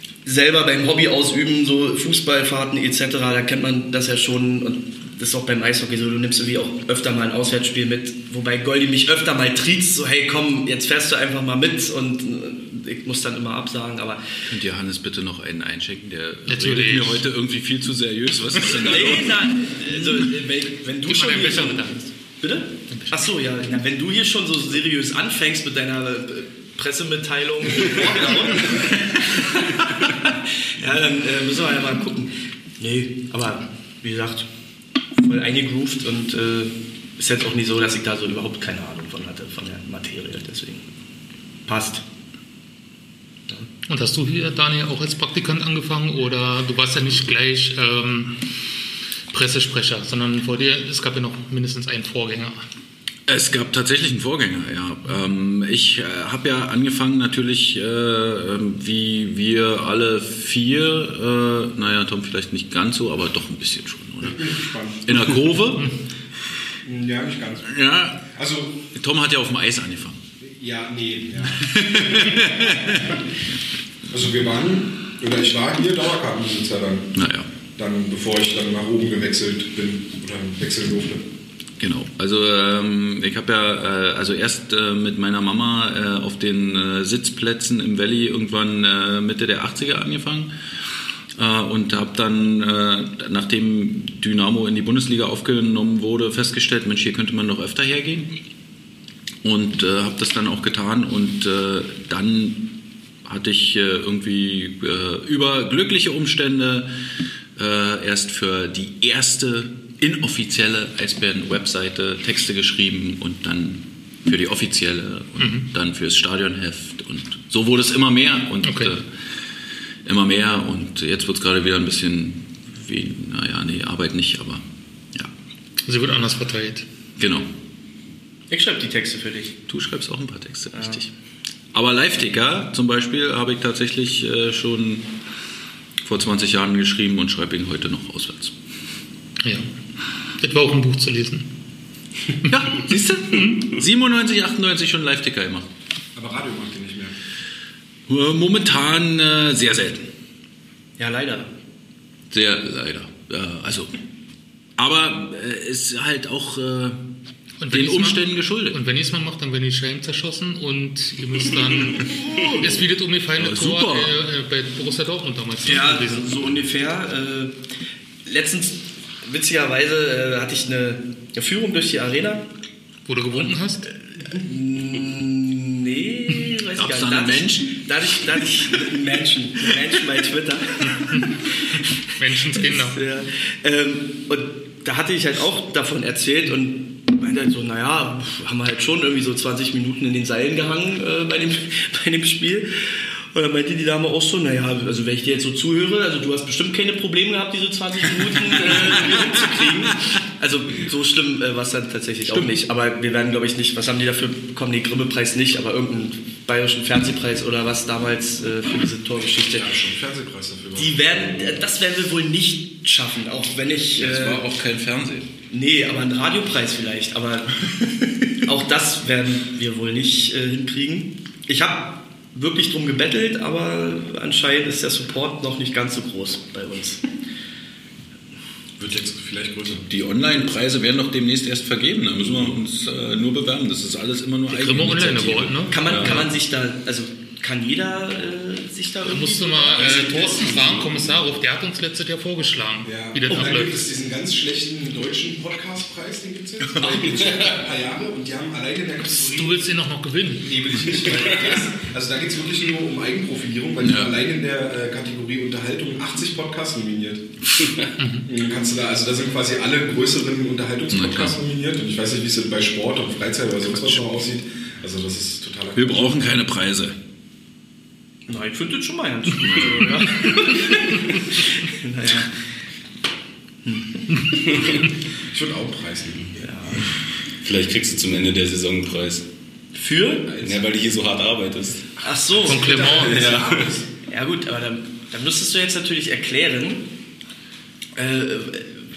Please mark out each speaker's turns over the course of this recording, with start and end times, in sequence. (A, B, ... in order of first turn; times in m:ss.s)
0:00.2-0:14.3 A
0:14.5-0:19.5 B
0:16.5-0:17.2 C
0:18.8-0:34.5 A
0:21.1-0:22.1 C
0:22.9-0:23.3 C
0:35.2-0:40.8 A
0:41.7-0:42.0 A
0:43.9-0:48.4 C
0:49.3-0:52.6 C
0:53.3-1:05.9 B
1:04.2-1:05.2 D
1:06.8-1:08.8 D
1:07.7-1:08.2 B
1:09.0-1:10.2 B
1:10.4-1:13.1 D
1:11.5-1:13.2 B
1:14.1-1:17.1 D
1:17.2-1:17.5 B
1:17.8-1:21.2 D
1:21.8-1:30.5 B
1:31.4-1:38.3 B
1:39.4-1:42.7 B
1:43.2-1:46.9 B
1:47.6-1:59.1 B
1:55.4-1:55.7 C
1:58.6-1:58.9 C
2:00.0-2:05.3 B
2:05.9-2:06.9 C
2:07.2-2:07.5 B
2:08.5-2:09.6 A
2:09.7-2:11.1 B
2:10.7-2:11.0 A
2:11.7-2:15.1 B
2:16.0-2:18.5 B
2:20.4-2:21.5 C
2:22.5-2:25.7 B
2:26.2-2:27.2 D
2:28.1-2:30.1 B
2:31.0-2:31.5 A
2:32.3-2:33.9 B
2:34.8-2:37.0 B
2:37.6-2:46.4 C
2:37.7-2:38.8 B
2:42.1-2:42.8 A
2:43.4-2:44.1 B
2:45.6-2:47.6 A
2:48.2-2:52.5 A
2:53.1-2:53.9 C
2:54.2-3:29.8 A
2:56.8-2:58.4 B
3:01.1-3:01.4 C
3:02.2-3:03.0 C
3:18.7-3:19.4 B
3:29.5-3:31.6 D
3:30.8-3:34.4 A
3:34.0-3:35.3 B
3:35.5-3:37.6 A
3:38.4-3:47.0 A
3:48.8-3:49.9 D
3:49.9-3:56.3 B
3:54.5-3:56.3 C
3:55.7-4:00.8 A
3:59.0-4:03.8 C
3:59.8-4:01.3 D
4:02.8-4:09.7 D
4:06.7-4:07.4 B
4:09.1-4:10.6 C
4:10.4-4:17.3 D
4:13.8-4:14.1 B
4:18.0-4:18.3 C
4:18.3-4:26.2 D
4:20.9-4:21.4 B
4:25.8-4:27.0 B
4:28.3-4:32.3 A
4:29.4-4:30.5 B
4:33.6-4:33.9 A
4:35.3-4:36.8 D
4:36.4-4:36.9 A
4:37.4-4:39.2 E
4:39.8-4:40.3 A
4:40.3-4:40.6 D
4:40.4-4:41.9 E
4:42.0-4:43.1 A
4:42.3-4:43.9 D
4:42.5-4:43.3 C
4:43.0-4:43.7 E
4:44.1-4:46.9 A
4:48.0-4:48.8 A